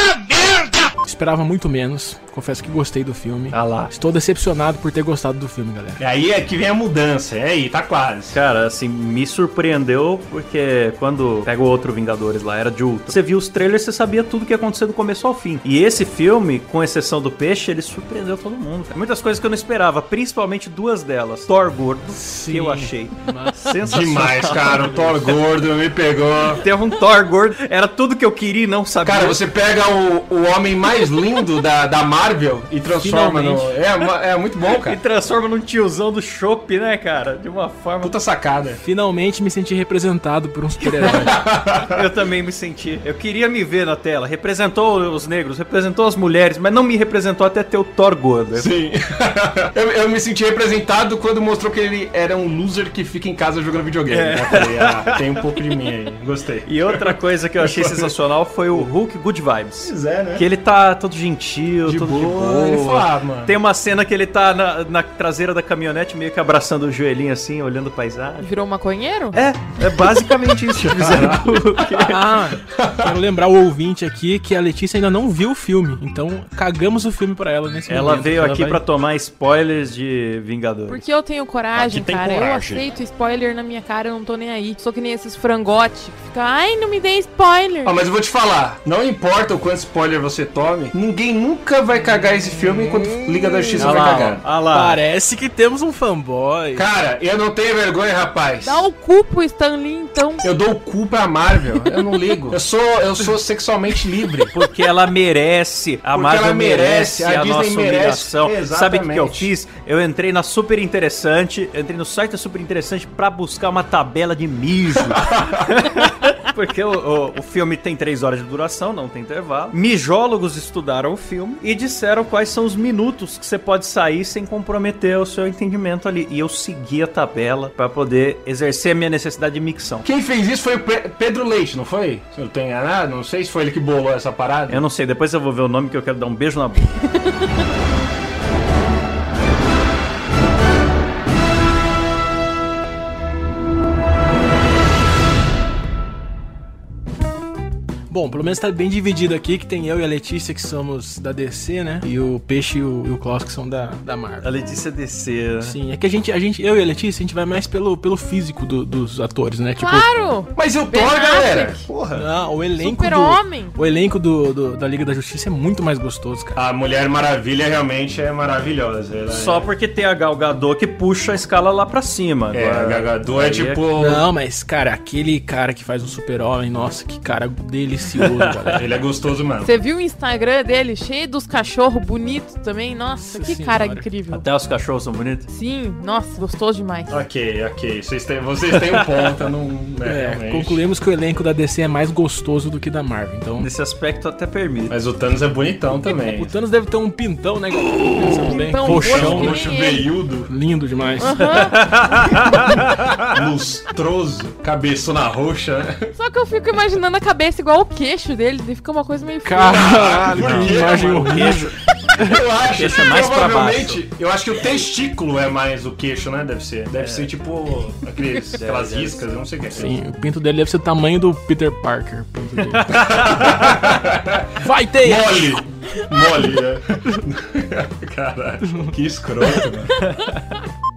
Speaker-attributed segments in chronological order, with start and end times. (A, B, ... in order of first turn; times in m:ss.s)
0:01.0-0:06.0 A
0:03.5-0:03.9 B
0:06.0-0:08.4 C
0:08.3-0:25.2 B
0:22.1-0:23.6 A
0:23.8-0:26.6 C
0:24.6-0:25.1 A
0:26.6-0:29.4 B
0:29.0-0:35.0 C
0:33.0-0:33.7 A
0:34.6-0:38.1 B
0:38.0-0:38.8 C
0:38.8-0:41.4 A
0:41.0-0:42.0 C
0:41.8-0:48.7 B
0:48.5-0:58.1 C
0:54.1-0:55.2 B
0:56.6-1:08.5 B
0:59.8-1:00.4 C
1:01.8-1:03.5 C
1:08.4-1:09.4 D
1:09.3-1:12.2 B
1:10.8-1:11.6 C
1:12.0-1:18.8 A
1:12.7-1:13.1 C
1:17.9-1:21.0 B
1:20.9-1:27.9 D
1:21.7-1:22.9 B
1:27.8-1:34.4 C
1:33.8-1:35.0 B
1:34.7-1:36.8 A
1:36.7-1:38.8 C
1:38.6-1:40.4 D
1:40.4-1:44.5 C
1:44.5-2:10.1 B
1:46.1-1:49.5 C
1:55.1-1:55.7 C
2:10.0-2:14.8 C
2:14.7-2:16.9 B
2:28.1-2:34.5 A
2:34.4-2:35.7 B
2:35.6-2:40.1 A
2:39.8-2:41.8 D
2:40.5-2:42.2 C
2:42.2-2:46.6 A
2:42.8-2:43.8 D
2:46.5-2:49.7 C
2:49.3-2:53.9 B
2:52.5-2:54.2 C
2:54.0-2:58.8 A
2:58.4-2:58.8 B
2:58.7-2:59.7 C
2:59.6-3:04.4 D
3:03.2-3:04.1 A
3:04.3-3:05.5 B
3:05.5-3:07.2 D
3:07.1-3:10.8 C
3:08.8-3:09.3 B
3:10.0-3:13.7 A
3:13.6-3:14.9 B
3:14.9-3:16.5 C
3:16.3-3:19.7 A
3:18.3-3:20.1 D
3:18.8-3:20.5 C
3:20.5-3:21.4 A
3:21.2-3:21.8 D
3:21.5-3:23.1 B
3:23.1-3:26.1 C
3:26.2-3:30.0 D
3:29.4-3:32.3 A
3:29.7-3:31.6 C
3:30.3-3:31.8 B
3:32.2-3:39.9 C
3:32.6-3:34.0 B
3:37.0-3:37.3 B
3:38.6-3:39.3 B
3:39.7-3:43.2 A
3:42.9-3:43.6 B
3:43.0-3:50.0 C
3:44.6-3:45.6 A
3:50.0-3:50.4 B